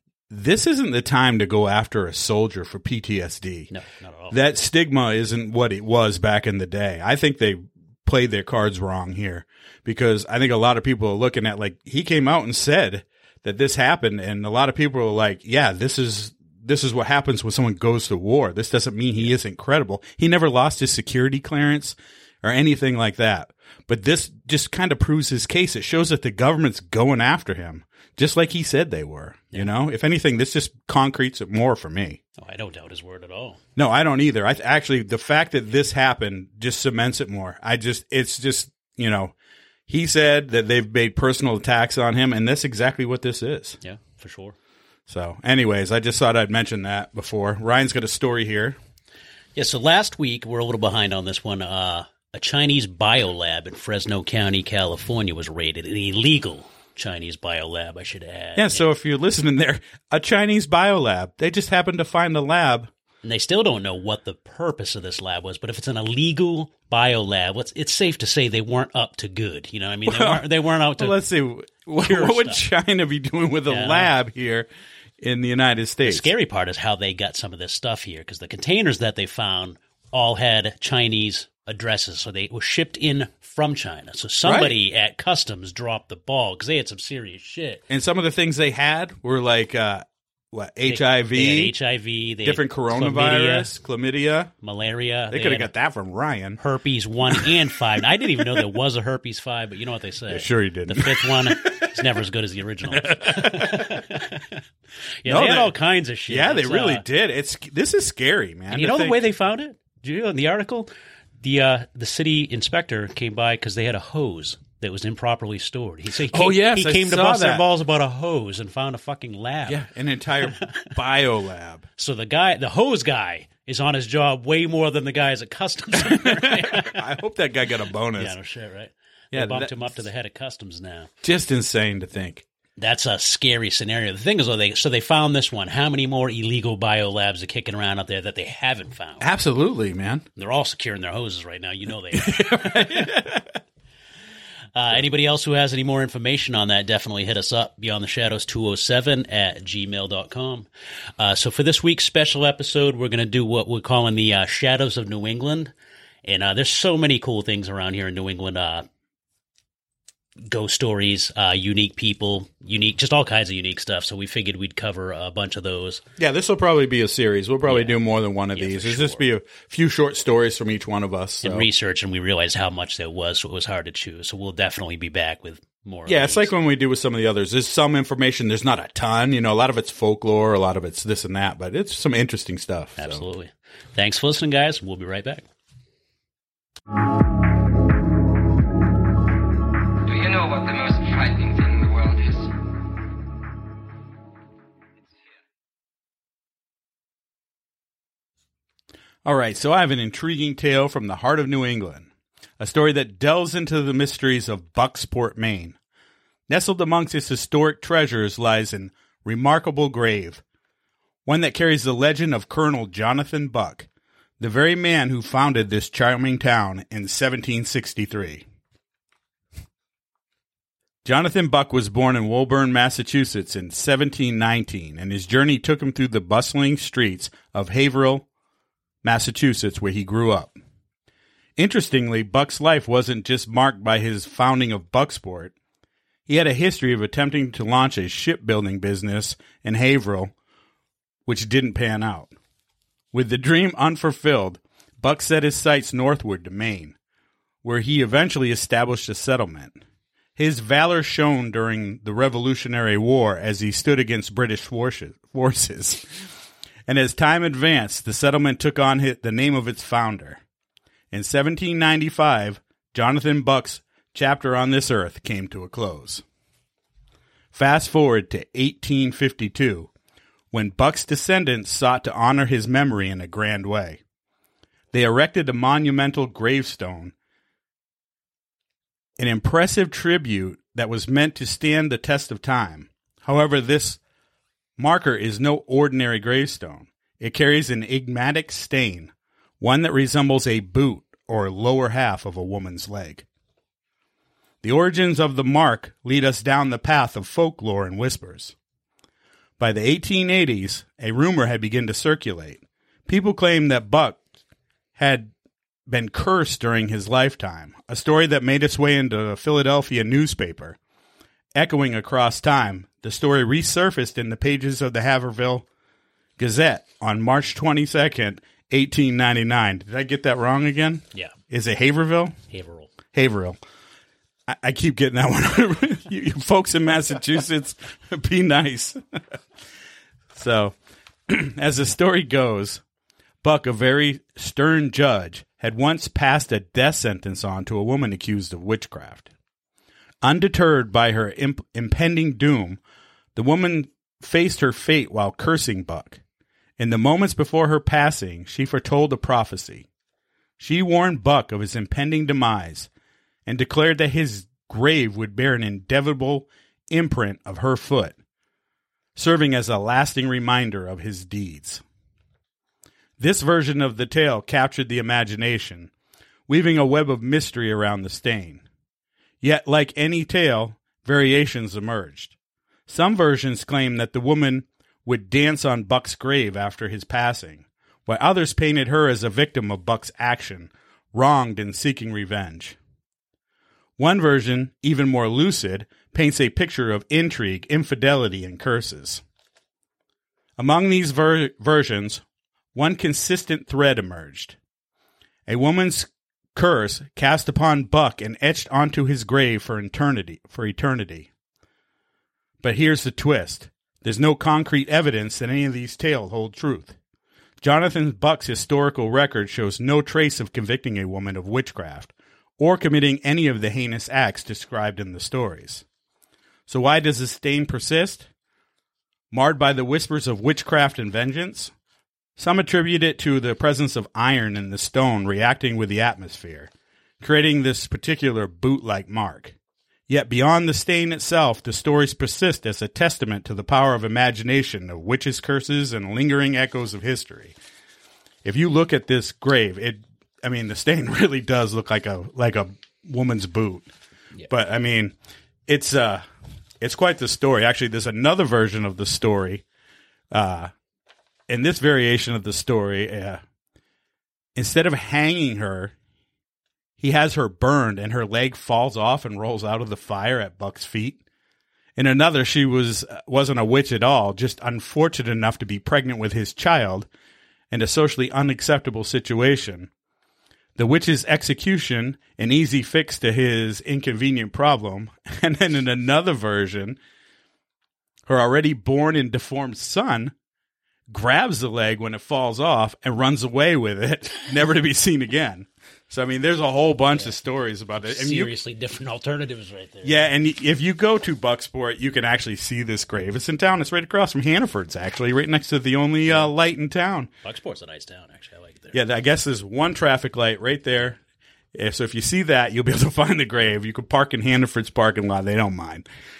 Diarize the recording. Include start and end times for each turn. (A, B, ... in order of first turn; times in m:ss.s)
0:00.3-0:03.7 A
0:03.7-0:04.4 B
0:04.3-0:32.2 A
0:32.4-0:33.6 B
0:33.8-0:39.3 A
0:39.9-0:43.8 A
0:43.8-0:44.6 B
0:45.1-0:48.8 A
0:49.6-0:58.8 B
0:58.6-1:02.9 A
1:03.2-1:11.2 B
1:10.0-1:10.4 A
1:11.0-1:14.7 A
1:12.0-1:12.6 B
1:13.7-1:14.1 B
1:15.2-1:16.3 A
1:16.0-1:27.8 B
1:24.4-1:24.7 A
1:27.9-1:31.7 A
1:30.8-1:33.7 B
1:32.4-1:34.5 A
1:34.6-1:35.7 B
1:35.3-1:36.6 A
1:36.6-1:44.6 B
1:40.3-1:41.9 A
1:42.9-1:44.1 A
1:45.2-1:47.0 B
1:45.2-1:45.7 A
1:46.3-1:49.2 A
1:48.7-1:59.8 B
1:56.3-1:57.6 A
1:59.7-2:01.8 A
2:00.4-2:00.9 B
2:02.0-2:07.1 B
2:06.0-2:08.3 A
2:08.2-2:11.1 B
2:09.3-2:10.0 A
2:11.2-2:12.4 A
2:12.8-2:19.3 B
2:19.2-2:20.2 A
2:20.4-2:23.2 B
2:22.1-2:23.4 A
2:24.7-2:30.7 B
2:31.2-2:35.7 B
2:36.2-2:38.9 B
2:40.4-2:46.0 B
2:46.2-2:51.7 A
2:47.6-2:48.0 B
2:48.5-2:49.2 B
2:51.4-2:56.5 B
2:56.1-3:03.2 A
3:03.0-3:05.5 B
3:10.0-3:12.5 C
3:19.2-3:25.8 A
3:26.5-3:30.4 A
3:31.2-3:33.9 A
3:34.4-3:38.4 A
3:41.0-3:48.2 A
3:49.0-3:50.5 A
3:51.6-3:55.5 A
3:56.3-4:00.3 A
4:01.2-4:02.3 A
4:03.1-4:07.0 A
4:07.6-4:09.8 A
4:10.4-4:16.1 A
4:16.9-4:20.4 A
4:21.1-4:26.2 A
4:27.5-4:29.9 A
4:30.5-4:34.0 A
4:34.9-4:37.1 A
4:39.2-4:44.0 A
4:44.8-4:53.2 A
4:54.6-4:58.5 A
4:59.6-5:04.2 A
5:05.0-5:05.3 A
5:05.9-5:10.8 A
5:11.5-5:15.6 A
5:16.4-5:22.4 A
5:22.5-5:22.9 B
5:23.1-5:23.6 A
5:24.5-5:29.0 A
5:30.3-5:30.7 A
5:31.3-5:32.8 A
5:33.4-5:39.3 A
5:40.2-5:42.8 A
5:43.3-5:46.2 A
5:46.8-5:49.8 A
5:50.6-5:52.9 A
5:53.4-5:58.2 A
5:59.2-6:01.8 A
6:03.2-6:05.9 A
6:06.5-6:08.6 A
6:09.4-6:12.3 A
6:12.9-6:22.8 A
6:24.0-6:29.2 A
6:30.6-6:32.2 A
6:32.7-6:34.6 A
6:35.5-6:41.3 A
6:42.6-6:47.0 A
6:47.6-6:55.8 A
6:56.7-6:58.3 A
6:59.3-7:01.7 A
7:02.4-7:09.6 A
7:10.1-7:17.5 A
7:18.4-7:23.9 A
7:24.5-7:25.1 A
7:25.7-7:26.2 A
7:26.8-7:29.6 A
7:30.3-7:30.7 A
7:31.5-7:33.4 A
7:34.5-7:35.9 A
7:37.0-7:41.2 A
7:42.0-7:47.1 A
7:47.7-7:49.9 A
7:50.8-7:57.0 A
7:58.3-8:00.3 A
8:01.1-8:08.5 A
8:07.1-8:07.4 B
8:08.0-8:10.3 B
8:10.0-8:17.3 A
8:17.4-8:19.0 B
8:18.9-8:21.2 A
8:21.7-8:26.0 A